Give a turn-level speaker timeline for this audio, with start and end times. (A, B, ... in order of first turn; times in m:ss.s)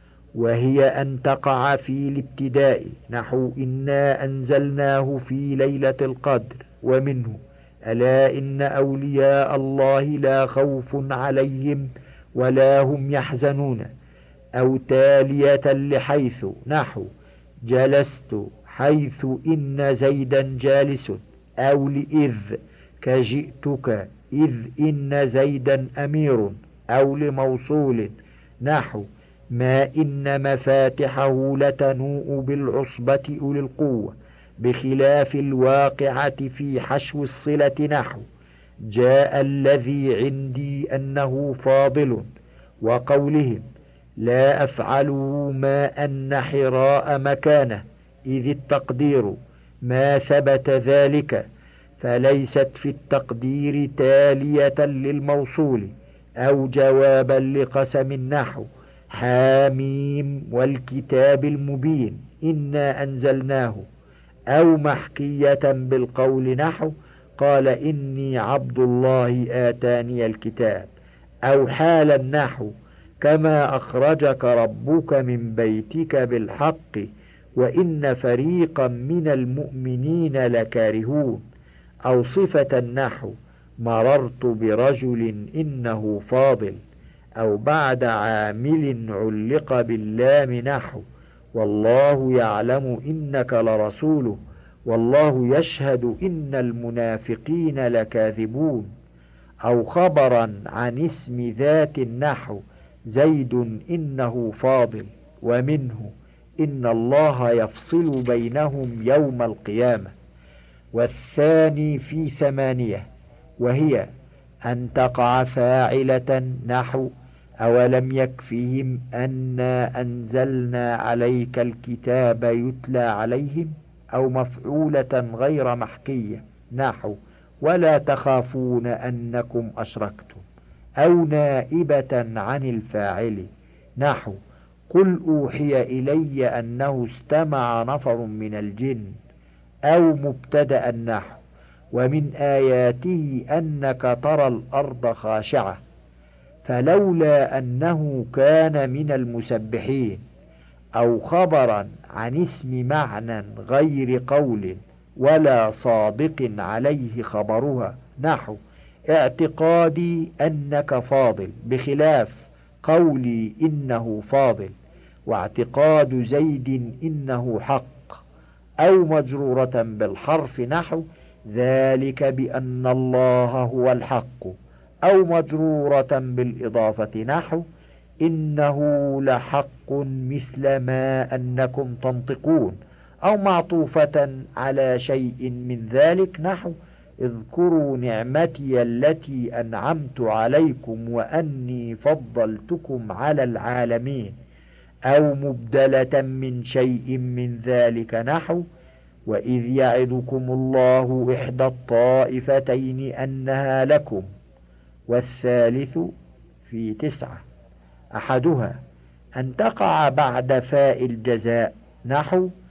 0:00.4-0:13.9 A
0:14.6-0:17.1 A
0:17.7-0:38.2 A
0:38.9-0:42.3 A
0:42.8-0:43.6 A
0:44.2-0:51.4 A
0:52.0-1:03.8 A
1:04.5-1:10.9 A
1:11.5-1:21.4 A
1:22.1-1:26.8 A
1:27.4-1:31.0 A
1:31.6-1:38.9 A
1:39.6-1:50.1 A
1:50.9-1:53.1 A
1:53.6-1:54.1 A
1:54.6-1:57.1 A
1:57.6-2:10.4 A
2:11.0-2:14.4 A
2:14.9-2:19.2 A
2:19.9-2:21.4 A
2:21.9-2:25.8 A
2:26.6-2:30.2 A
2:31.0-2:44.7 A
2:45.3-2:48.2 A
2:48.8-2:57.6 A
2:58.2-3:14.3 A
3:15.1-3:18.6 A
3:19.3-3:24.3 A
3:25.1-3:26.1 A
3:26.7-3:27.4 A
3:28.2-3:28.8 A
3:29.4-3:32.5 A